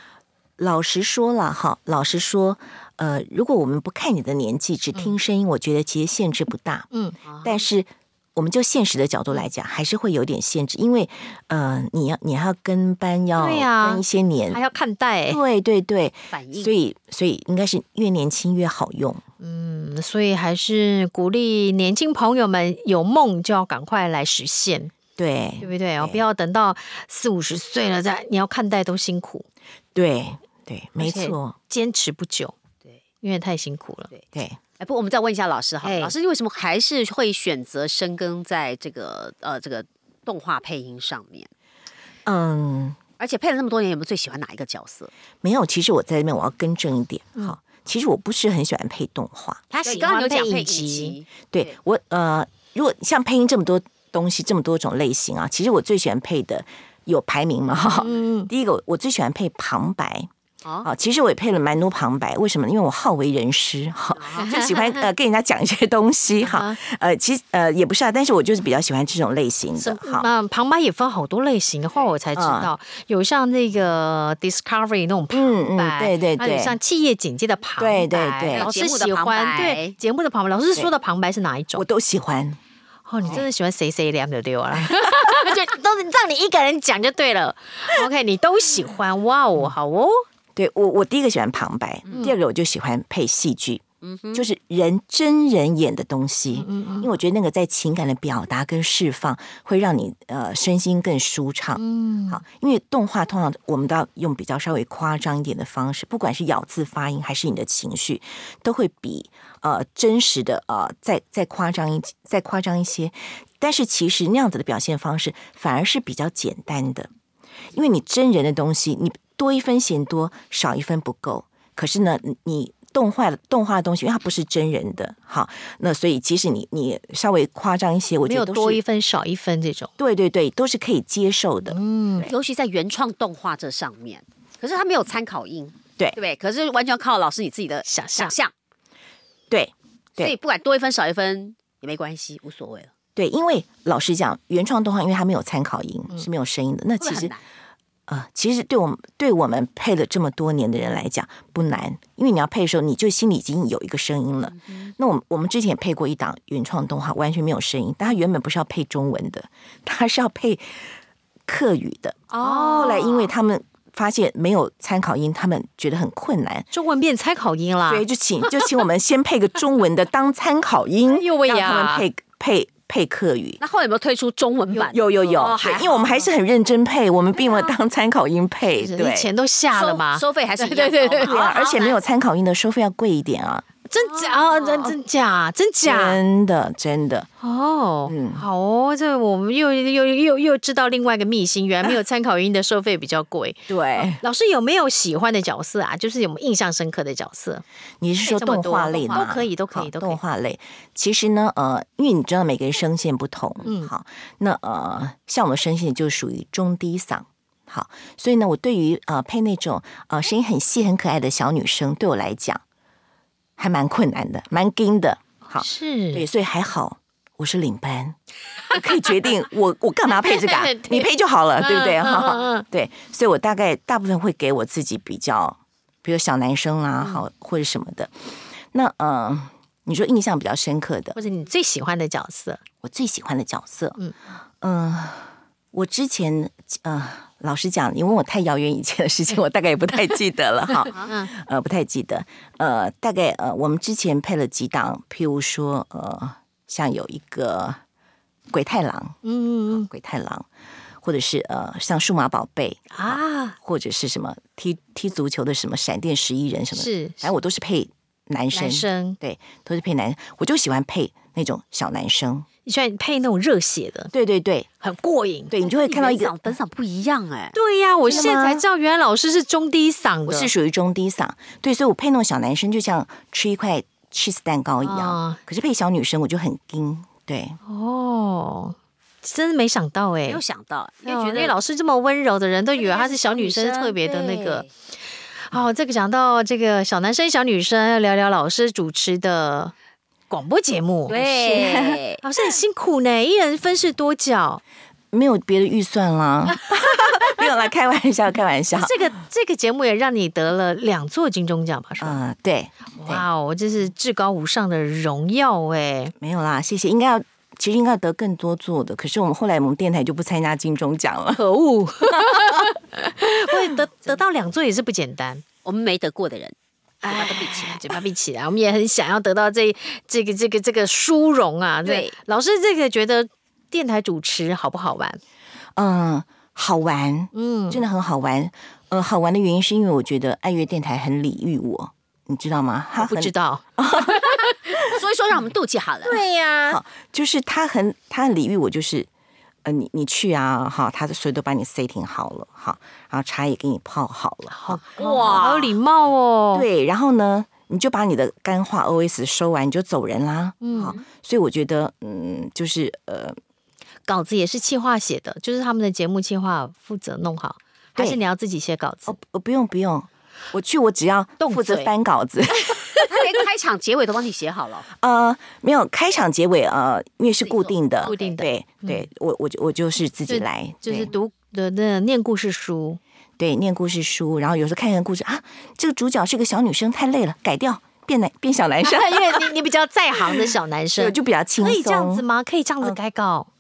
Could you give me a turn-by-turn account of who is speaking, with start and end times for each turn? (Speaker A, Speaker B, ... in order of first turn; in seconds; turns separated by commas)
Speaker A: 0.6-6.9, Speaker B: 6.9-7.2, Speaker C: 7.3-7.6, Speaker A: 7.4-14.6, Speaker B: 13.4-15.4, Speaker A: 15.3-19.2, Speaker C: 16.3-16.7, Speaker B: 19.4-24.9, Speaker A: 25.2-26.2, Speaker B: 25.6-29.5, Speaker A: 29.9-31.6, Speaker B: 31.0-32.5, Speaker B: 33.2-34.1, Speaker A: 34.3-34.6, Speaker C: 34.8-41.5, Speaker B: 35.8-36.1, Speaker A: 42.3-43.0, Speaker C: 43.2-45.1, Speaker A: 45.4-49.6, Speaker B: 49.7-51.2, Speaker C: 49.9-51.7, Speaker A: 51.5-60.3, Speaker B: 58.0-58.5, Speaker A: 60.8-70.3, Speaker C: 64.1-64.6, Speaker B: 64.4-65.0, Speaker B: 66.4-66.8, Speaker B: 69.8-81.8, Speaker A: 72.3-72.7, Speaker A: 75.3-76.8, Speaker A: 77.8-78.7, Speaker C: 78.5-80.0, Speaker A: 81.8-82.6, Speaker B: 83.1-90.2, Speaker A: 90.6-117.1, Speaker C: 94.0-94.4, Speaker B: 96.5-97.1, Speaker B: 101.8-102.4, Speaker A: 117.7-128.8, Speaker B: 128.2-129.9, Speaker A: 130.0-132.3, Speaker B: 131.7-132.3, Speaker C: 132.2-138.5, Speaker B: 137.9-138.3, Speaker A: 139.5-140.3, Speaker C: 140.2-142.9, Speaker A: 143.2-147.3, Speaker C: 147.0-147.4, Speaker A: 148.1-160.9, Speaker A: 161.5-166.7, Speaker C: 162.3-163.3, Speaker B: 162.4-163.1, Speaker B: 166.7-168.1, Speaker A: 167.9-173.6, Speaker B: 171.1-172.1, Speaker C: 173.6-176.3, Speaker A: 174.9-179.3, Speaker B: 178.8-181.4, Speaker C: 179.7-182.0, Speaker A: 181.2-183.7, Speaker B: 183.9-186.2, Speaker C: 184.1-184.9, Speaker A: 185.8-187.3, Speaker B: 187.4-197.6, Speaker A: 188.1-188.4, Speaker A: 193.7-194.2, Speaker A: 198.0-212.6, Speaker B: 198.3-200.2, Speaker C: 198.5-199.2, Speaker B: 203.6-203.9, Speaker A: 213.6-218.2, Speaker B: 215.6-216.3, Speaker A: 218.7-231.2, Speaker B: 220.2-221.1, Speaker B: 221.6-222.7, Speaker B: 231.2-232.6, Speaker A: 232.8-234.0, Speaker A: 234.6-247.8, Speaker B: 241.1-241.3, Speaker A: 248.5-249.2, Speaker B: 249.2-249.9, Speaker A: 249.7-250.5, Speaker A: 251.0-262.5, Speaker B: 252.9-253.6, Speaker B: 256.7-257.3, Speaker B: 258.5-259.2, Speaker B: 262.7-264.1, Speaker A: 264.1-264.7, Speaker B: 264.8-265.5, Speaker A: 265.5-266.4, Speaker C: 265.6-267.6, Speaker B: 267.5-270.5, Speaker A: 268.1-268.6, Speaker A: 270.3-277.6, Speaker B: 274.8-275.4, Speaker B: 277.6-280.4, Speaker C: 280.3-281.6, Speaker B: 281.1-284.7, Speaker C: 282.8-284.7, Speaker B: 285.5-289.7, Speaker B: 290.3-291.6, Speaker C: 291.1-292.2, Speaker A: 291.5-292.0, Speaker B: 292.2-294.6, Speaker A: 295.1-299.0, Speaker B: 298.8-302.2, Speaker A: 302.0-303.2, Speaker B: 303.0-306.1, Speaker A: 306.2-311.4, Speaker B: 311.3-315.4, Speaker A: 312.0-312.7, Speaker C: 315.6-316.6, Speaker B: 317.0-325.2, Speaker C: 317.1-318.0, Speaker C: 321.9-322.1, Speaker A: 325.8-334.3, Speaker B: 327.3-327.8, Speaker B: 333.0-334.7, Speaker C: 334.8-336.2, Speaker B: 336.0-336.8, Speaker A: 336.7-339.1, Speaker A: 339.6-345.4, Speaker B: 344.5-346.7, Speaker C: 345.0-345.8, Speaker A: 346.5-353.4, Speaker B: 350.6-351.0, Speaker B: 354.1-359.2, Speaker A: 359.1-362.9, Speaker B: 361.4-361.9, Speaker C: 363.1-364.9, Speaker A: 365.0-371.1, Speaker C: 367.4-368.4, Speaker B: 368.0-369.1, Speaker B: 370.3-373.0, Speaker A: 373.4-379.5, Speaker B: 378.8-383.5, Speaker A: 380.2-382.3